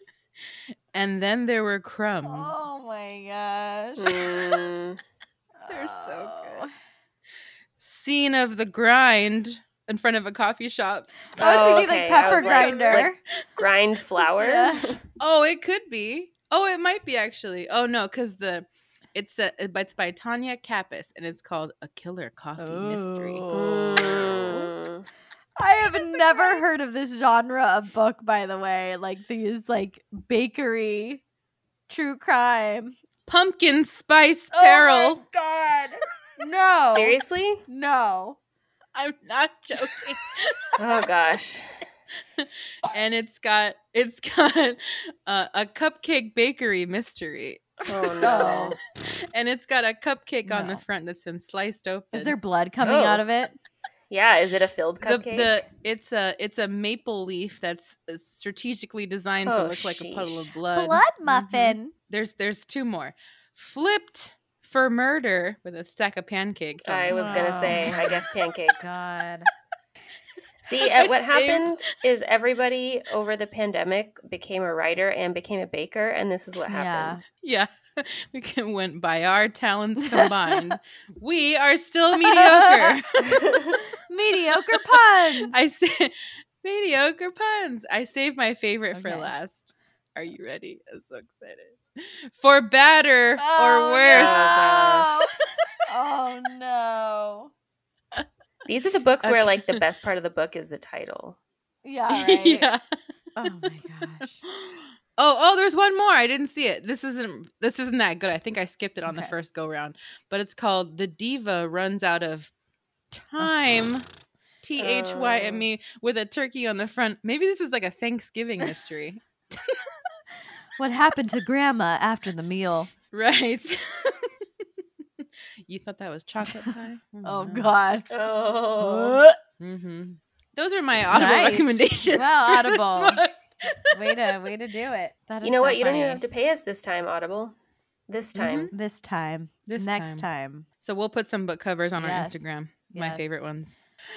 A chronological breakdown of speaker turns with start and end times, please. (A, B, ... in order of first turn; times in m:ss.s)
0:00.9-0:02.6 A
0:02.2-0:04.7 B
0:04.0-0:05.0 C
0:05.6-0:06.7 B
0:05.7-0:06.7 A
0:07.8-0:11.3 A
0:11.4-0:13.2 B
0:11.4-0:15.0 C
0:12.2-0:13.1 A
0:14.4-0:14.9 B
0:15.2-0:23.4 A
0:22.6-0:24.7 B
0:23.5-0:25.1 C
0:25.6-0:31.2 B
0:31.9-0:33.0 B
0:33.3-0:35.2 A
0:34.5-0:38.4 B
0:36.9-0:37.6 C
0:39.0-0:40.6 A
0:40.8-0:41.8 C
0:42.4-0:48.6 A
0:47.9-0:48.8 C
0:48.2-0:48.8 B
0:49.3-0:52.4 A
0:50.5-0:50.8 B
0:52.1-0:53.5 B
0:52.8-0:53.2 C
0:54.1-0:55.6 C
0:55.0-1:08.2 A
0:59.4-1:00.5 C
1:00.8-1:01.9 B
1:06.9-1:08.9 C
1:07.1-1:08.0 B
1:08.7-1:09.5 B
1:10.6-1:17.2 C
1:11.0-1:11.9 A
1:16.7-1:17.2 B
1:17.4-1:23.5 A
1:20.0-1:20.6 B
1:22.2-1:23.0 B
1:23.5-1:23.8 C
1:24.1-1:25.6 B
1:24.7-1:35.4 A
1:28.9-1:29.3 B
1:33.4-1:35.4 B
1:34.1-1:35.1 C
1:35.9-1:37.5 B
1:38.7-1:41.4 C
1:39.2-1:39.8 A
1:41.8-1:42.7 B
1:42.1-1:42.8 A
1:43.4-1:44.4 B
1:44.4-1:52.5 A
1:49.1-1:49.3 B
1:53.1-1:54.0 A
1:54.6-1:59.2 A
1:54.8-1:55.6 C
2:00.8-2:02.9 B
2:03.1-2:04.4 A
2:05.2-2:07.7 A
2:07.2-2:08.1 B
2:08.1-2:09.2 C
2:08.8-2:09.4 B
2:09.6-2:14.3 A
2:11.1-2:13.2 B
2:13.9-2:16.2 B
2:15.4-2:17.6 C
2:18.1-2:18.7 C
2:18.4-2:18.7 A
2:18.7-2:20.7 B
2:19.7-2:20.3 A
2:20.8-2:23.8 A
2:22.0-2:23.4 B